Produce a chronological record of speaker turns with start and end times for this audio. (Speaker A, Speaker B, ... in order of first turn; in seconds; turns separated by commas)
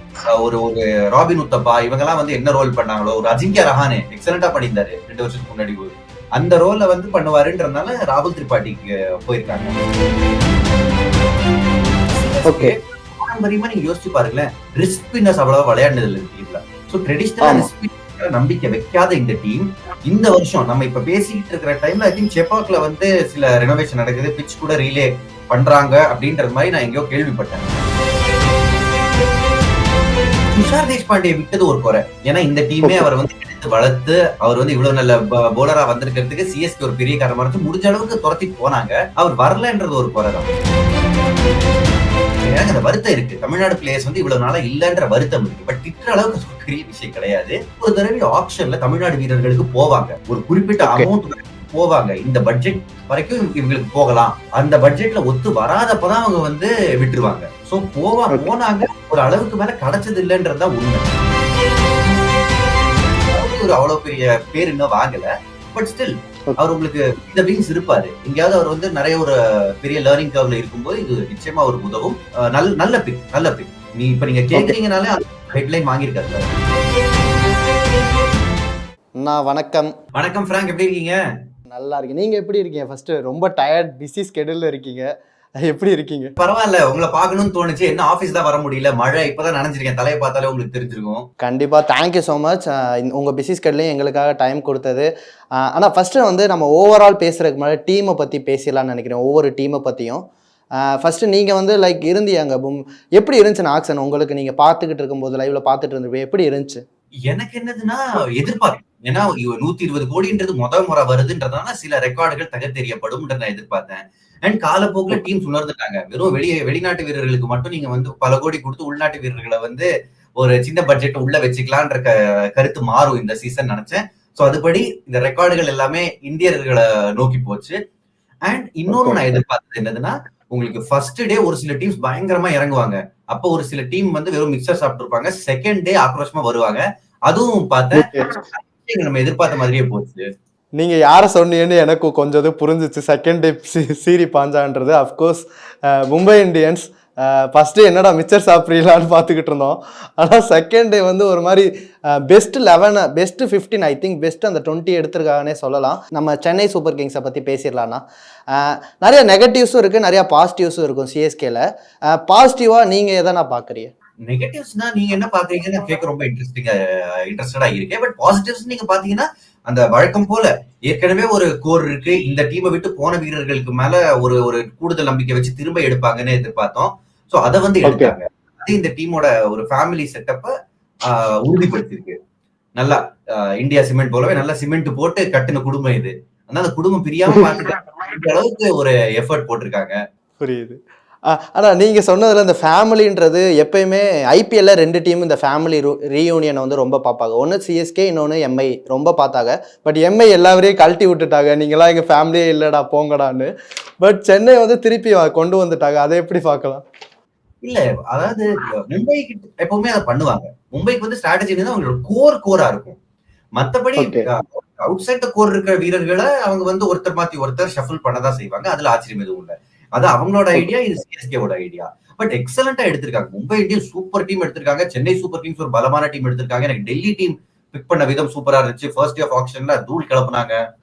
Speaker A: 0.4-9.8, Speaker A: 12.1-27.7, Speaker B: 12.5-12.8, Speaker B: 17.4-17.7, Speaker A: 30.5-40.5, Speaker B: 32.8-33.1, Speaker A: 42.4-61.1, Speaker B: 50.8-51.1, Speaker A: 63.3-76.5, Speaker B: 79.2-79.9, Speaker A: 80.2-81.2, Speaker B: 81.7-85.1, Speaker B: 85.6-86.3, Speaker A: 86.4-91.3, Speaker B: 91.4-95.1, Speaker B: 95.7-100.2, Speaker B: 101.0-106.8, Speaker A: 107.3-119.9, Speaker A: 120.4-127.8, Speaker A: 128.5-140.2, Speaker B: 128.9-129.4, Speaker B: 137.9-138.3, Speaker B: 140.8-151.7, Speaker B: 152.3-161.6, Speaker B: 162.3-163.9, Speaker A: 164.3-180.5, Speaker B: 177.8-178.2, Speaker A: 181.1-182.2, Speaker A: 183.6-190.0, Speaker B: 187.3-187.7, Speaker B: 190.4-190.8, Speaker B: 191.3-203.5, Speaker B: 204.0-206.8, Speaker A: 207.6-213.0, Speaker A: 213.6-230.6, Speaker B: 214.0-214.3